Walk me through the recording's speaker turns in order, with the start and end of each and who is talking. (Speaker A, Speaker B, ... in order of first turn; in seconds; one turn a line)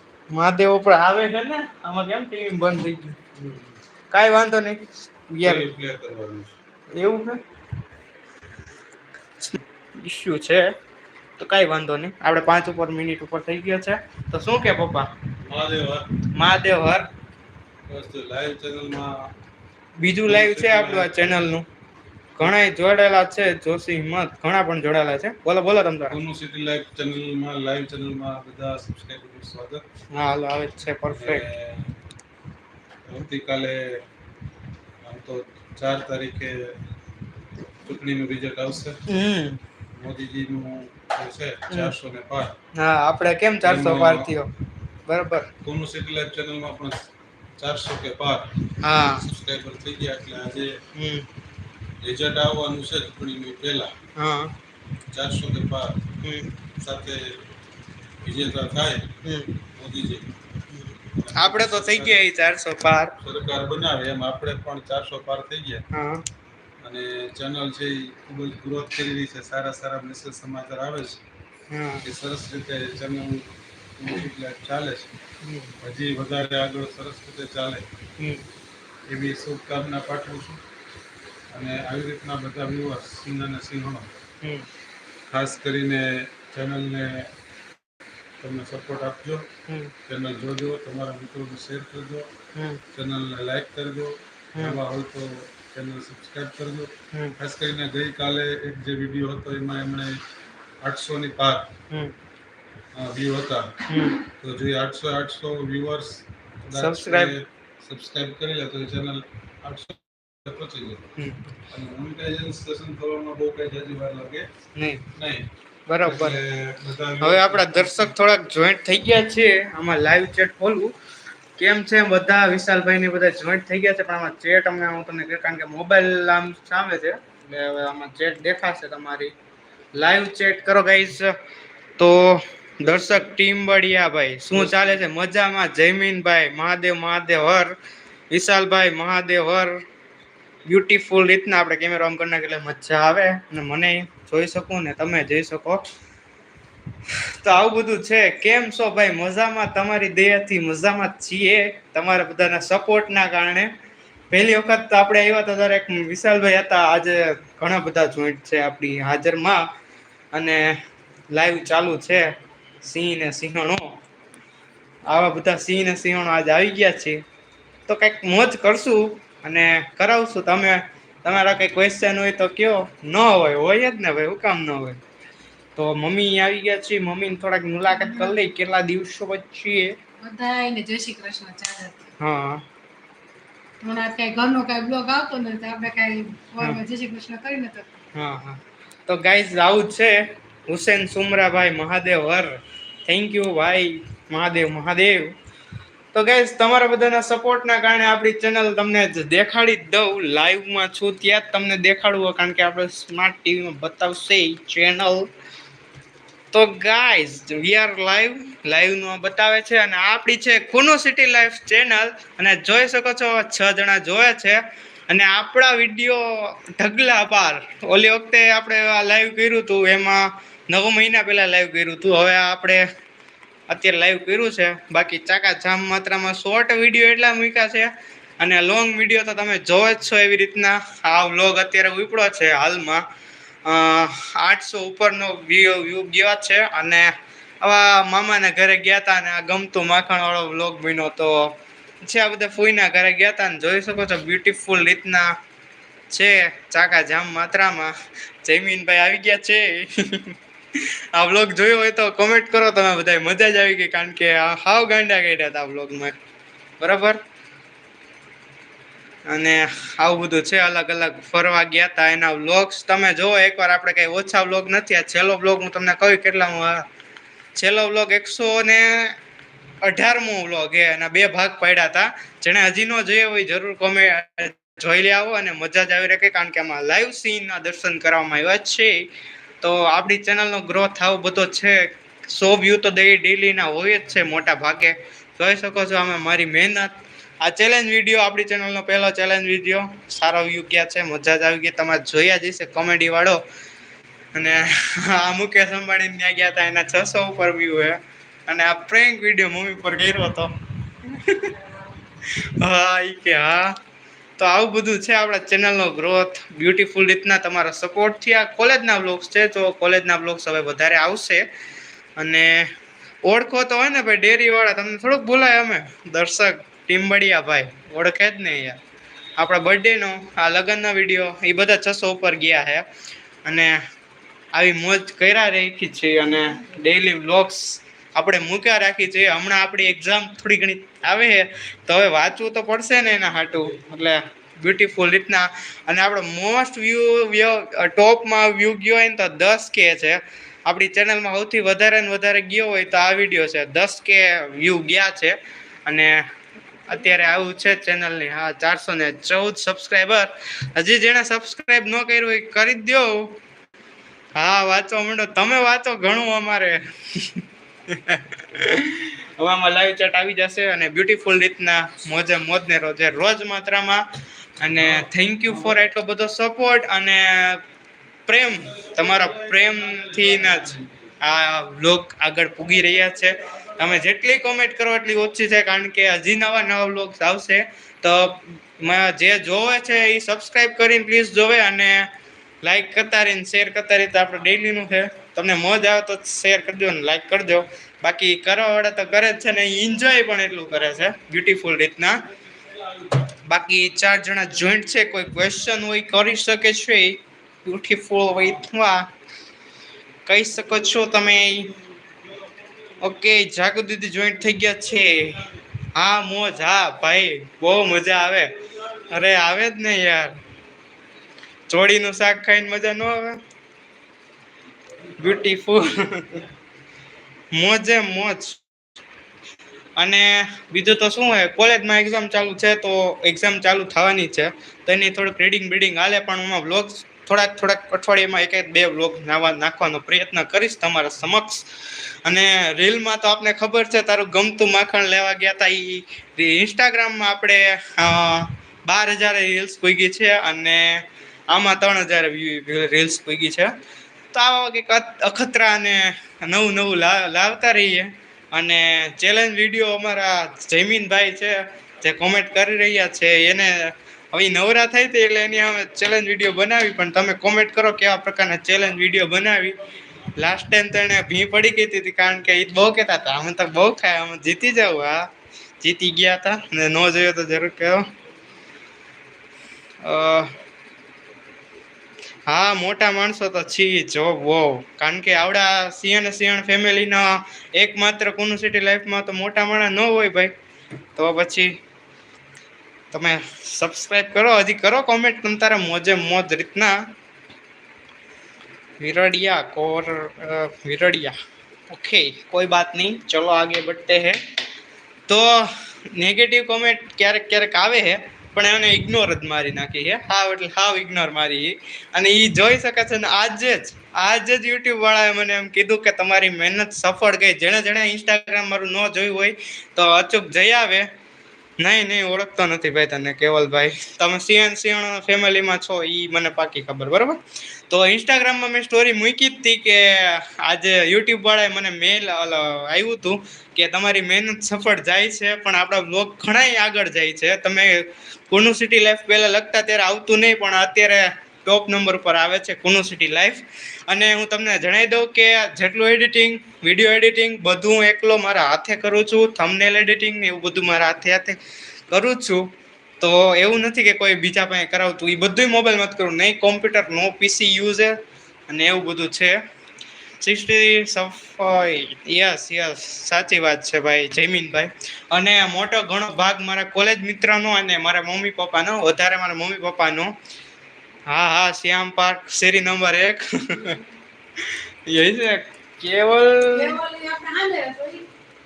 Speaker A: 0.3-3.2
Speaker B: 3.4-3.8
Speaker A: 4.1-5.7
Speaker B: 5.4-6.5
Speaker A: 6.9-7.4
Speaker A: 9.4-10.7
Speaker A: 11.4-15.1
Speaker B: 15.4-16.1
Speaker A: 16.3-17.1
Speaker B: 17.9-19.3
Speaker A: 20.0-21.7
Speaker B: 20.3-21.1
Speaker A: 22.4-26.2
Speaker B: 26.1-29.8
Speaker A: 30.1-31.5
Speaker B: 31.1-32.0
Speaker B: 33.1-34.0
Speaker B: 35.0-36.8
Speaker B: 37.8-39.0
Speaker A: 39.1-39.6
Speaker B: 40.0-42.6
Speaker A: 42.8-44.5
Speaker B: 43.6-44.3
Speaker A: 45.1-45.5
Speaker B: 45.6-47.0
Speaker B: 47.6-50.8
Speaker A: 48.8-49.3
Speaker A: 51.0-51.3
Speaker B: 52.0-54.0
Speaker A: 54.2-54.5
Speaker B: 55.1-56.1
Speaker A: 56.2-56.5
Speaker B: 56.8-57.4
Speaker B: 58.2-59.1
Speaker A: 59.2-59.6
Speaker B: 59.8-60.4
Speaker A: 60.7-63.2
Speaker B: 61.2-62.2
Speaker B: 63.2-65.8
Speaker A: 65.9-66.2
Speaker B: 66.8-71.2
Speaker A: 71.7-72.1
Speaker B: 72.0-75.1
Speaker A: 75.4-75.7
Speaker B: 75.8-77.9
Speaker A: 78.2-78.4
Speaker B: 79.1-80.6
Speaker B: 81.5-84.1
Speaker B: 85.3-87.3
Speaker B: 88.4-89.5
Speaker A: 89.7-89.9
Speaker B: 90.1-92.3
Speaker A: 92.5-92.8
Speaker B: 92.9-100.2
Speaker B: 100.8-101.7
Speaker B: 102.9-103.8
Speaker A: 103.9-104.3
Speaker B: 104.4-111.1
Speaker A: 106.8-107.3
Speaker A: 111.2-111.5
Speaker B: 111.7-114.5
Speaker A: 114.8-115.0
Speaker B: 115.2-115.5
Speaker A: 115.9-116.4
Speaker B: 116.0-118.1
Speaker A: 117.2-121.0
Speaker A: 121.6-129.3
Speaker A: 129.9-131.3
Speaker A: 132.0-137.7
Speaker A: 138.3-139.8
Speaker A: 140.7-145.8
Speaker A: 147.4-153.7
Speaker A: 154.3-159.6
Speaker A: 160.3-160.7
Speaker A: 161.3-162.3
Speaker A: 162.8-163.9
Speaker A: 165.1-167.2
Speaker A: 167.9-175.0
Speaker A: 175.8-180.0
Speaker C: 180.2-182.1
Speaker A: 182.2-182.6
Speaker C: 183.8-188.0
Speaker A: 188.2-195.3
Speaker A: 196.1-205.3
Speaker A: 206.5-222.8
Speaker A: 223.7-233.0
Speaker A: 233.7-237.1
Speaker A: 237.6-245.3
Speaker A: 246.1-247.9
Speaker A: 248.4-256.2
Speaker A: 256.8-257.2
Speaker A: 259.3-266.8
Speaker A: 267.6-269.2
Speaker A: 269.8-279.1
Speaker A: 279.6-293.4
Speaker A: 294.3-301.6
Speaker A: 302.4-303.8
Speaker A: 304.4-311.4
Speaker A: 312.2-312.7
Speaker A: 313.2-318.8
Speaker A: 319.4-322.9
Speaker A: 323.4-323.8
Speaker A: 324.5-345.4
Speaker A: 345.9-346.1
Speaker A: 346.9-353.4
Speaker A: 354.4-364.0
Speaker A: 364.6-367.6
Speaker A: 368.3-382.1
Speaker B: 368.9-370.9
Speaker A: 382.6-392.2
Speaker A: 393.3-399.1
Speaker A: 400.3-401.7
Speaker A: 403.0-408.5
Speaker A: 409.1-410.4
Speaker A: 411.7-413.4
Speaker A: 415.2-416.5
Speaker A: 417.5-418.6
Speaker A: 420.0-431.7
Speaker A: 432.2-443.7
Speaker A: 444.3-459.8
Speaker A: 460.4-465.3
Speaker A: 465.8-468.1
Speaker A: 470.0-470.5
Speaker A: 472.5-480.5
Speaker A: 481.2-481.7
Speaker A: 483.1-487.0
Speaker A: 489.0-491.4
Speaker A: 491.9-494.4
Speaker A: 495.3-511.1
Speaker A: 511.8-517.4
Speaker A: 517.9-541.6
Speaker A: 542.1-542.7
Speaker A: 543.2-548.2
Speaker A: 548.7-549.6
Speaker A: 550.4-560.3
Speaker A: 561.3-564.0
Speaker A: 564.6-567.0
Speaker C: 566.7-568.3